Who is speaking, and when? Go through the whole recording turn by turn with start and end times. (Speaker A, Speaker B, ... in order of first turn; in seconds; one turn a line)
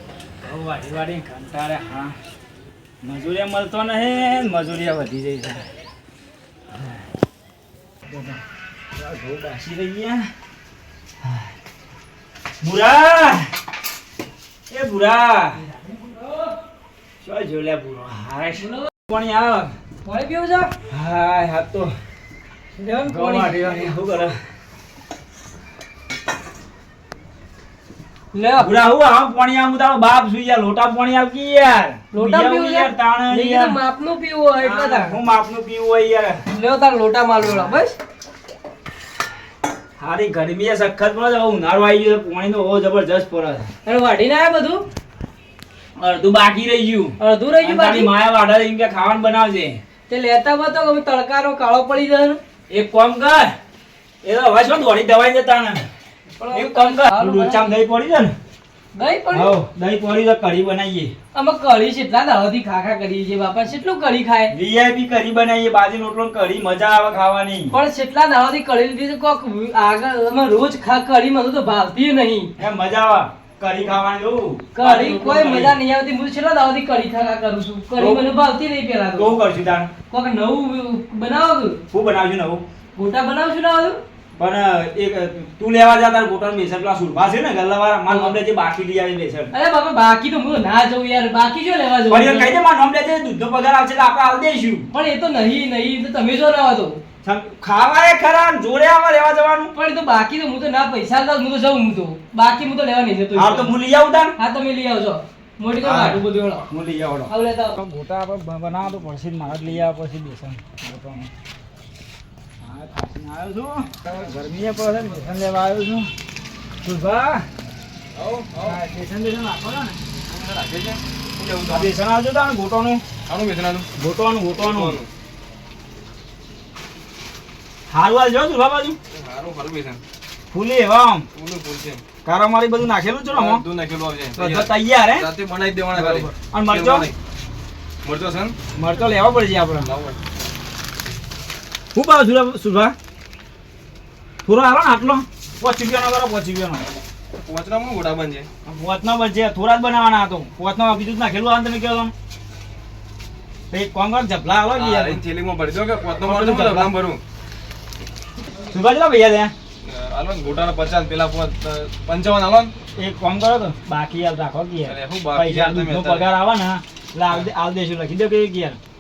Speaker A: 0.4-2.1
Speaker A: 3.0-5.6
Speaker A: 8.1-8.4
Speaker A: 8.9-10.3
Speaker A: 12.6-13.5
Speaker A: 14.7-15.6
Speaker A: 17.2-19.7
Speaker B: 18.6-18.9
Speaker B: 20.0-20.7
Speaker A: 20.9-21.9
Speaker B: 22.8-23.8
Speaker A: 23.1-24.4
Speaker B: 28.3-28.7
Speaker A: 28.6-33.8
Speaker B: 32.1-35.2
Speaker A: 34.6-36.4
Speaker B: 36.5-37.9
Speaker A: 40.0-43.7
Speaker B: 43.9-44.8
Speaker A: 46.0-49.8
Speaker B: 47.2-48.1
Speaker B: 50.1-52.4
Speaker A: 52.7-53.5
Speaker A: 54.2-55.8
Speaker B: 56.3-57.8
Speaker A: 56.5-58.3
Speaker B: 59.0-59.5
Speaker A: 59.3-61.1
Speaker B: 61.3-64.5
Speaker A: 64.5-67.7
Speaker B: 67.7-72.5
Speaker A: 72.6-75.8
Speaker B: 74.8-79.3
Speaker A: 78.0-78.2
Speaker A: 79.2-79.9
Speaker B: 80.1-81.8
Speaker A: 81.9-82.6
Speaker B: 83.0-84.0
Speaker A: 84.4-89.5
Speaker B: 88.1-88.4
Speaker B: 89.5-92.6
Speaker A: 92.1-94.9
Speaker B: 94.9-97.0
Speaker A: 97.2-99.7
Speaker B: 99.8-103.7
Speaker A: 103.3-104.3
Speaker B: 104.4-106.7
Speaker A: 105.8-111.3
Speaker B: 107.3-107.8
Speaker A: 112.6-116.1
Speaker A: 116.8-117.5
Speaker C: 118.2-118.8
Speaker A: 118.6-120.0
Speaker C: 120.3-121.9
Speaker A: 121.7-123.0
Speaker C: 123.3-123.9
Speaker A: 124.0-125.0
Speaker C: 124.7-125.1
Speaker A: 127.9-128.9
Speaker C: 129.2-130.0
Speaker A: 130.5-131.3
Speaker C: 131.3-132.0
Speaker A: 132.2-133.6
Speaker C: 133.3-134.7
Speaker A: 134.3-135.3
Speaker C: 135.2-137.1
Speaker A: 135.9-137.1
Speaker C: 138.0-138.5
Speaker A: 138.7-139.9
Speaker C: 139.8-140.2
Speaker A: 141.9-142.9
Speaker A: 144.4-146.8
Speaker C: 147.4-148.5
Speaker A: 148.7-152.1
Speaker A: 153.7-155.2
Speaker C: 154.8-157.2
Speaker A: 156.2-156.9
Speaker A: 158.7-159.5
Speaker C: 159.8-162.7
Speaker A: 163.0-168.8
Speaker C: 164.8-166.2